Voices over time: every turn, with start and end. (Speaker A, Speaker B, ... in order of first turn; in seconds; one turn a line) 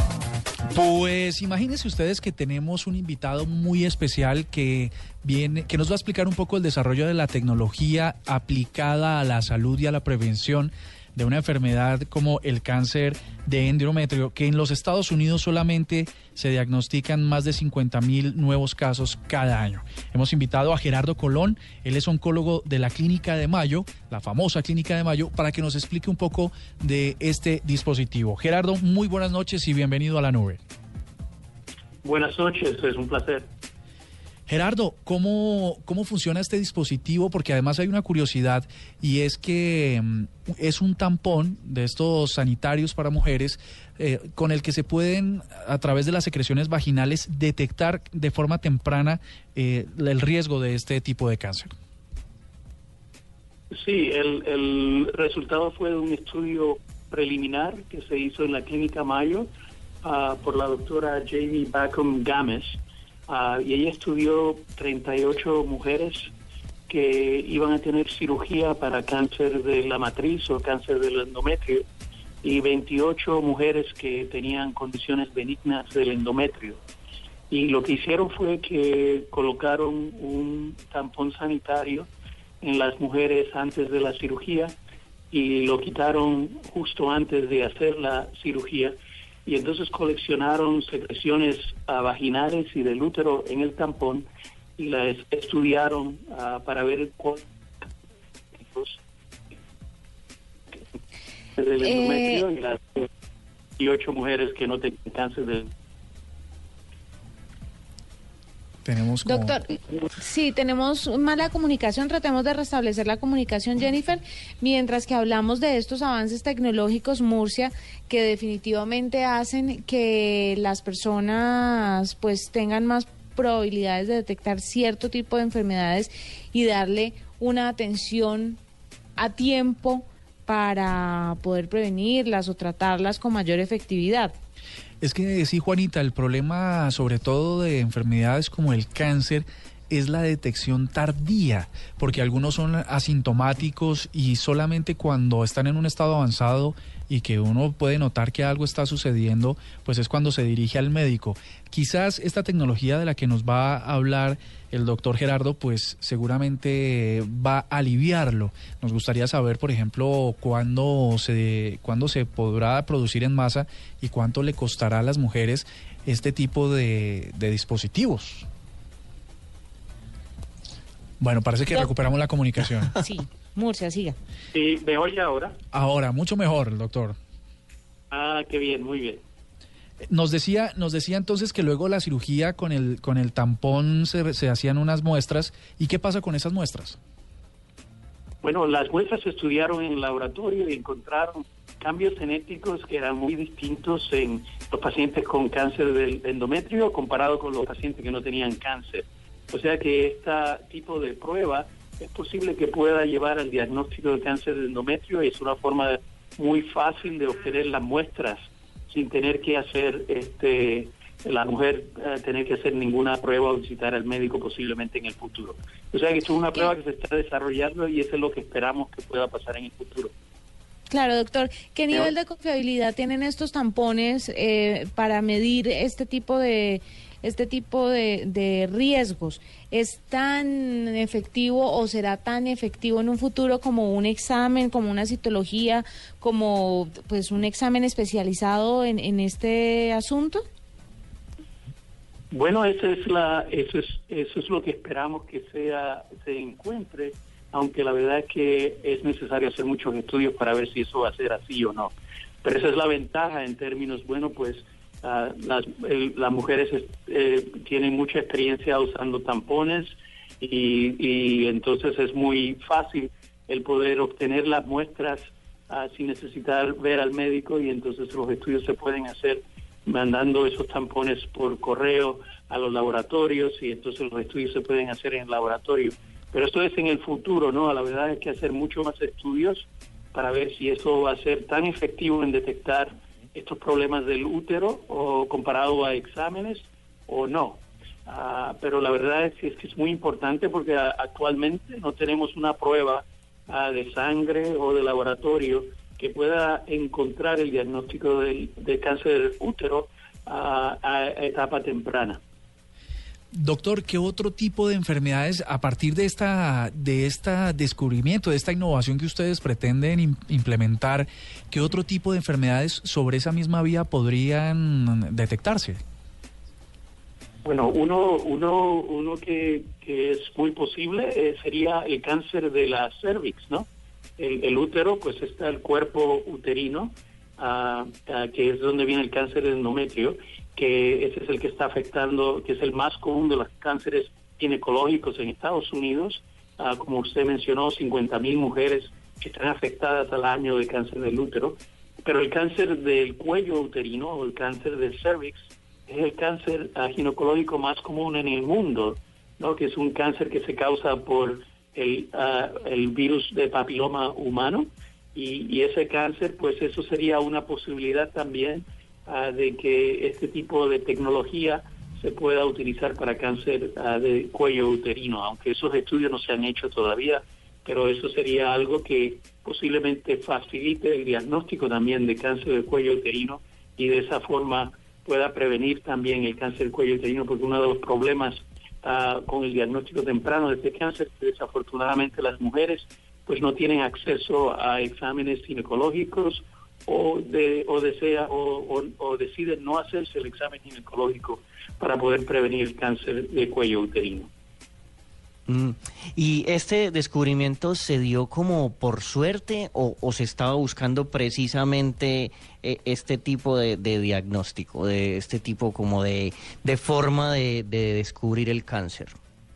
Speaker A: 0.7-30.6
Speaker B: 32.0-33.5
Speaker A: 34.5-51.7
Speaker B: 53.7-59.5
Speaker B: 60.0-66.3
Speaker B: 66.9-71.9
Speaker B: 72.4-76.8
Speaker B: 77.5-82.1
Speaker B: 82.6-84.7
Speaker B: 85.3-94.3
Speaker B: 94.8-97.4
Speaker B: 98.6-99.0
Speaker B: 101.6-102.8
Speaker C: 101.8-102.4
Speaker B: 103.8-105.7
Speaker A: 108.8-109.6
Speaker C: 109.2-128.6
Speaker C: 129.2-134.3
Speaker A: 135.0-168.5
Speaker A: 171.2-172.9
Speaker C: 173.0-174.2
Speaker B: 174.5-175.6
Speaker A: 175.7-177.2
Speaker B: 178.1-179.2
Speaker A: 180.1-187.0
Speaker B: 188.4-220.1
Speaker C: 220.9-240.4
Speaker B: 242.3-251.9
Speaker B: 252.4-302.2
Speaker A: 303.3-315.8
Speaker B: 317.4-323.7
Speaker B: 324.2-394.3
Speaker D: 395.5-409.1